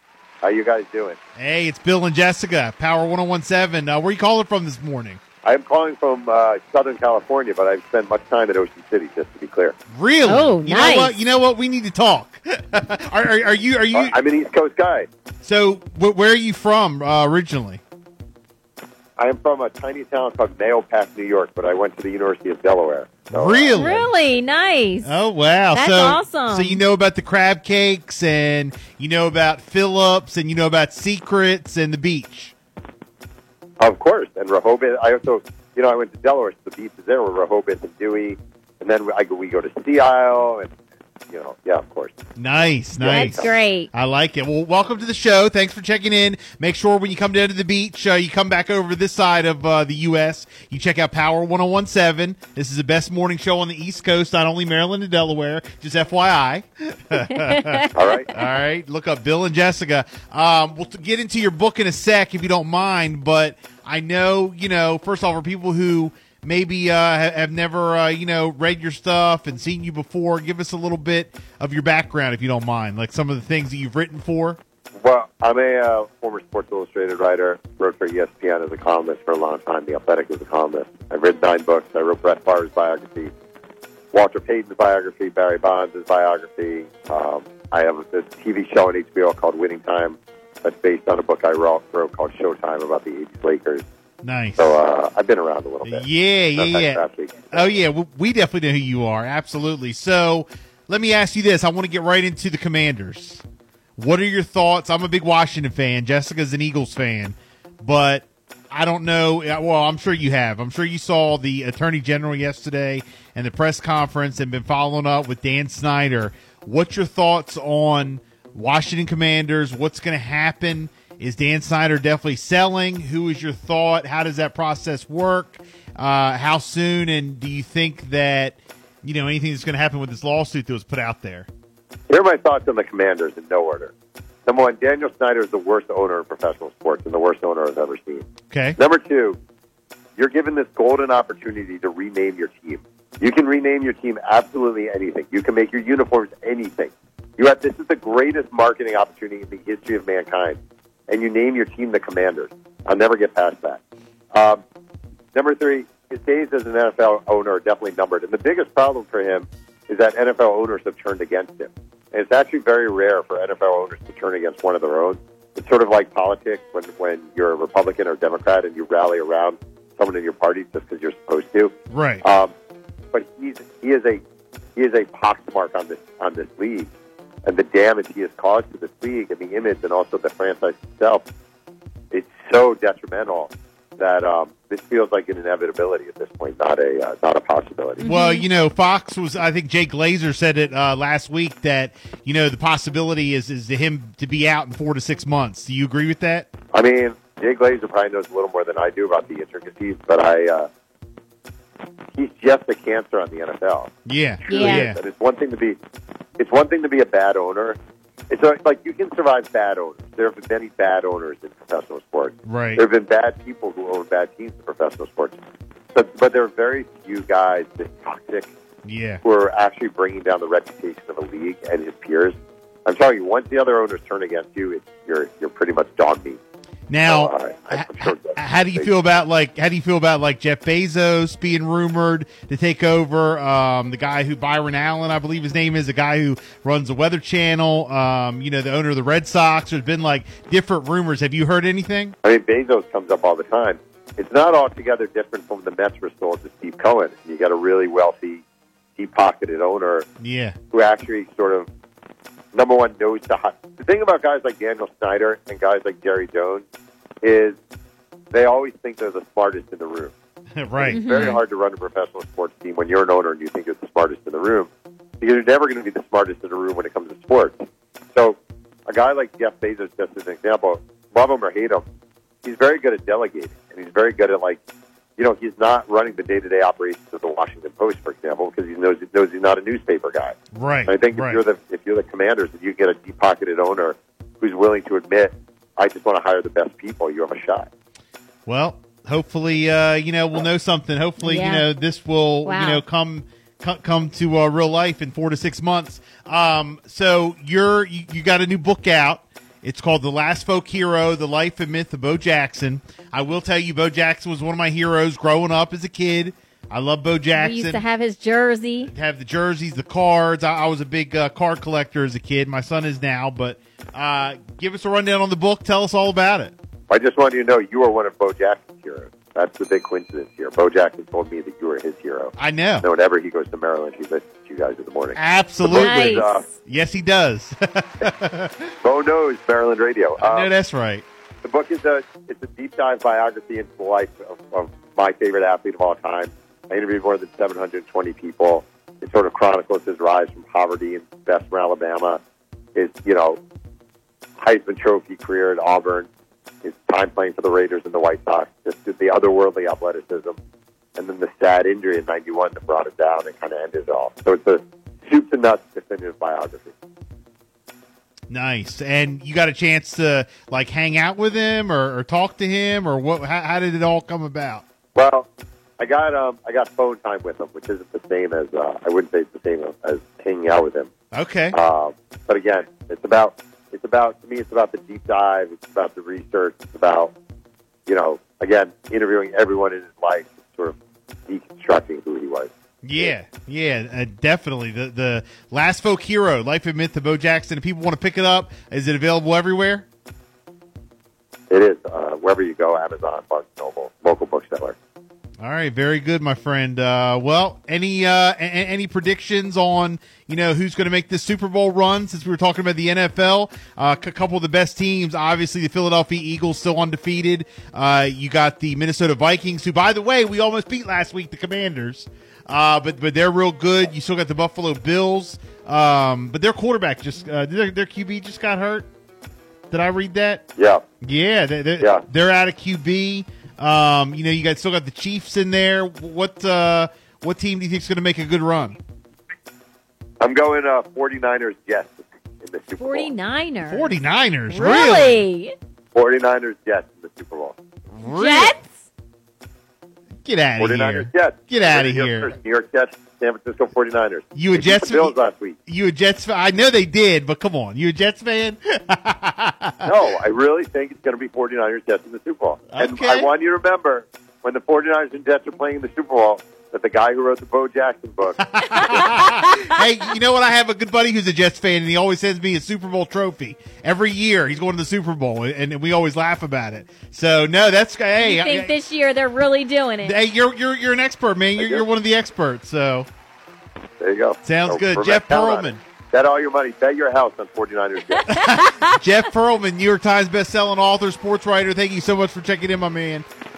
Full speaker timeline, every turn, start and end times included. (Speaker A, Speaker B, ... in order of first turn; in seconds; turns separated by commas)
Speaker A: 0.4-1.2, Speaker B: 1.4-5.2, Speaker A: 5.4-9.8, Speaker B: 9.9-14.2, Speaker C: 10.3-11.2, Speaker A: 13.9-15.1, Speaker B: 15.4-17.8, Speaker A: 19.2-23.9, Speaker B: 23.3-24.1, Speaker C: 23.7-25.1, Speaker B: 25.0-32.5, Speaker C: 25.7-26.8, Speaker A: 33.8-40.7, Speaker A: 41.3-42.2, Speaker B: 42.4-74.6, Speaker C: 43.0-43.9, Speaker A: 43.1-43.5, Speaker C: 57.4-57.8, Speaker A: 57.9-58.3, Speaker A: 75.0-83.3, Speaker A: 84.1-93.8, Speaker B: 94.2-94.7, Speaker A: 94.6-97.7, Speaker B: 95.8-103.4, Speaker B: 104.0-131.5, Speaker A: 132.1-133.9, Speaker A: 134.5-139.4, Speaker B: 138.5-138.8, Speaker A: 140.2-150.6, Speaker A: 151.1-153.8, Speaker A: 154.3-154.6, Speaker A: 155.3-172.5, Speaker B: 171.9-172.2, Speaker A: 173.1-174.2, Speaker A: 174.8-176.9, Speaker A: 177.4-181.2, Speaker A: 182.1-188.0, Speaker C: 188.0-188.5, Speaker B: 188.1-196.5, Speaker A: 196.7-200.7, Speaker A: 202.2-203.9, Speaker B: 204.1-205.0, Speaker A: 204.5-205.8, Speaker C: 204.5-204.9, Speaker A: 206.4-207.8, Speaker A: 208.3-215.4, Speaker B: 212.4-212.8, Speaker A: 215.9-218.5, Speaker B: 218.8-219.2, Speaker A: 219.2-222.3, Speaker A: 222.9-226.4, Speaker B: 226.9-242.2, Speaker A: 227.1-228.9, Speaker A: 242.2-248.4, Speaker A: 249.0-250.1, Speaker B: 250.2-250.6, Speaker A: 250.7-251.7, Speaker A: 252.5-256.6, Speaker A: 257.2-257.6, Speaker A: 258.3-260.1, Speaker B: 260.6-261.4, Speaker A: 260.8-264.7, Speaker C: 260.9-261.4, Speaker A: 265.2-267.6, Speaker A: 268.1-271.8, Speaker A: 272.4-274.6, Speaker A: 275.2-280.4, Speaker B: 280.5-281.4, Speaker A: 280.9-287.7, Speaker B: 288.5-307.8, Speaker C: 291.2-291.7, Speaker C: 292.4-292.8, Speaker C: 307.4-308.9, Speaker B: 308.8-316.5, Speaker A: 316.9-326.5, Speaker B: 322.4-322.9, Speaker B: 325.2-328.7, Speaker C: 325.6-326.3, Speaker A: 328.8-330.5, Speaker B: 330.2-331.0, Speaker A: 331.4-342.2, Speaker A: 342.8-343.4, Speaker A: 344.4-346.1, Speaker A: 346.6-350.4, Speaker A: 351.0-356.7, Speaker B: 358.3-364.6, Speaker A: 364.9-370.9, Speaker B: 371.1-371.6, Speaker A: 371.5-377.1, Speaker A: 377.9-380.8, Speaker A: 381.3-383.1, Speaker B: 382.8-389.9, Speaker A: 391.5-394.8, Speaker B: 395.4-418.9, Speaker B: 419.7-420.4, Speaker A: 420.6-420.8, Speaker B: 421.0-428.8, Speaker A: 430.2-433.1, Speaker C: 432.8-435.6, Speaker B: 433.7-435.2, Speaker A: 435.9-437.6, Speaker B: 437.9-438.5, Speaker C: 438.0-438.7, Speaker B: 440.2-442.3, Speaker A: 440.6-445.6, Speaker B: 444.4-445.1, Speaker B: 445.7-449.9, Speaker A: 449.8-459.1, Speaker B: 452.7-453.3, Speaker B: 458.4-468.7, Speaker C: 458.8-459.7, Speaker C: 468.2-470.1, Speaker B: 470.0-473.1, Speaker A: 471.6-471.9, Speaker A: 474.0-478.3, Speaker B: 474.4-475.8, Speaker B: 478.3-483.3, Speaker C: 478.4-478.8